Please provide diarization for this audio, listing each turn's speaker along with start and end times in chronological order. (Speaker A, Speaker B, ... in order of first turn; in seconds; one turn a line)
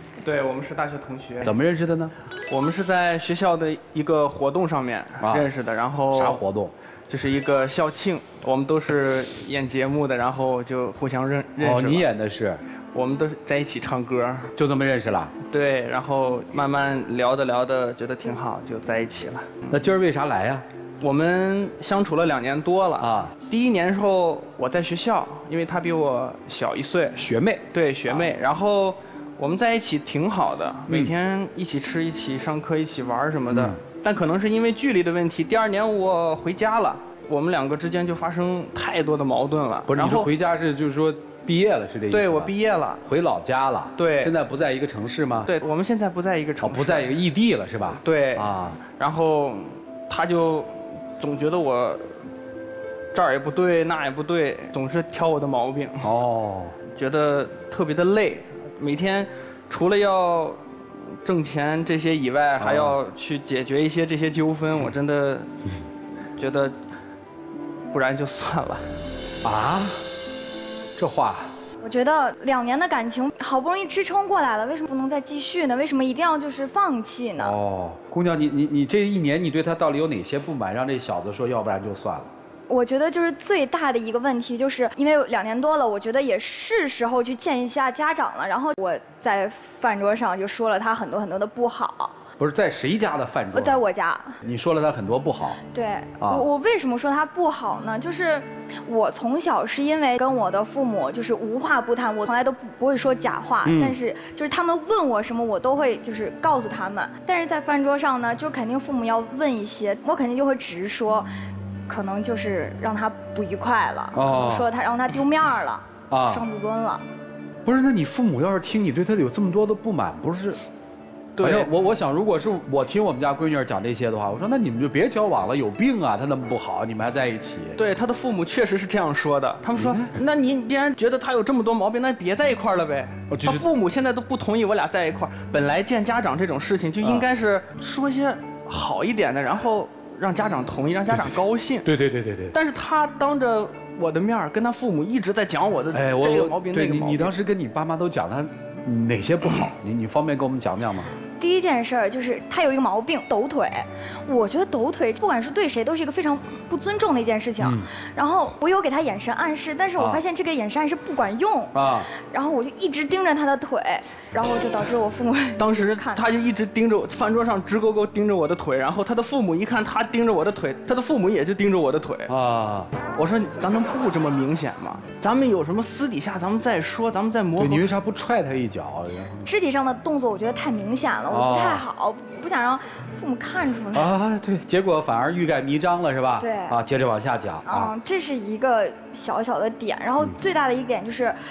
Speaker A: 0.2-1.6
Speaker B: 1.4-2.1
Speaker A: 2.5-6.4
Speaker B: 5.2-5.5
Speaker B: 6.1-6.7
Speaker A: 7.1-12.1
Speaker B: 11.6-12.6
Speaker A: 12.9-14.5
Speaker B: 14.6-15.3
Speaker A: 15.5-19.7
Speaker B: 19.7-20.6
Speaker A: 21.0-27.2
Speaker B: 23.0-23.3
Speaker B: 27.1-28.3
Speaker A: 27.7-40.3
Speaker B: 30.9-31.1
Speaker B: 33.5-33.8
Speaker B: 39.9-45.5
Speaker A: 42.1-43.0
Speaker A: 44.0-44.3
Speaker A: 45.5-47.2
Speaker B: 46.6-48.8
Speaker A: 47.9-52.2
Speaker A: 53.1-56.1
Speaker B: 56.0-56.8
Speaker A: 56.9-60.6
Speaker A: 61.2-65.5
Speaker B: 62.6-63.0
Speaker A: 66.4-66.7
Speaker A: 67.9-68.8
Speaker B: 69.4-70.1
Speaker B: 71.0-71.5
Speaker C: 71.8-77.5
Speaker B: 77.4-82.3
Speaker C: 82.7-92.2
Speaker B: 92.4-93.8
Speaker C: 93.5-94.4
Speaker B: 94.4-95.6
Speaker C: 95.7-111.3
Speaker B: 96.2-96.5
Speaker B: 103.6-104.0
Speaker C: 111.9-117.0
Speaker B: 114.1-114.6
Speaker B: 116.1-116.4
Speaker B: 117.6-120.6
Speaker A: 121.4-121.7
Speaker B: 121.4-127.8
Speaker A: 127.8-141.9
Speaker B: 129.8-130.1
Speaker B: 133.3-133.7
Speaker B: 141.1-142.6
Speaker A: 142.5-147.3
Speaker B: 145.9-151.1
Speaker C: 151.4-166.2
Speaker B: 157.6-157.9
Speaker B: 160.0-160.2
Speaker B: 161.7-162.1
Speaker A: 165.6-172.3
Speaker B: 172.3-172.9
Speaker A: 173.1-177.9
Speaker B: 177.6-179.4
Speaker C: 179.4-184.1
Speaker B: 181.3-181.8
Speaker B: 183.9-187.9
Speaker C: 186.4-186.8
Speaker C: 187.7-191.4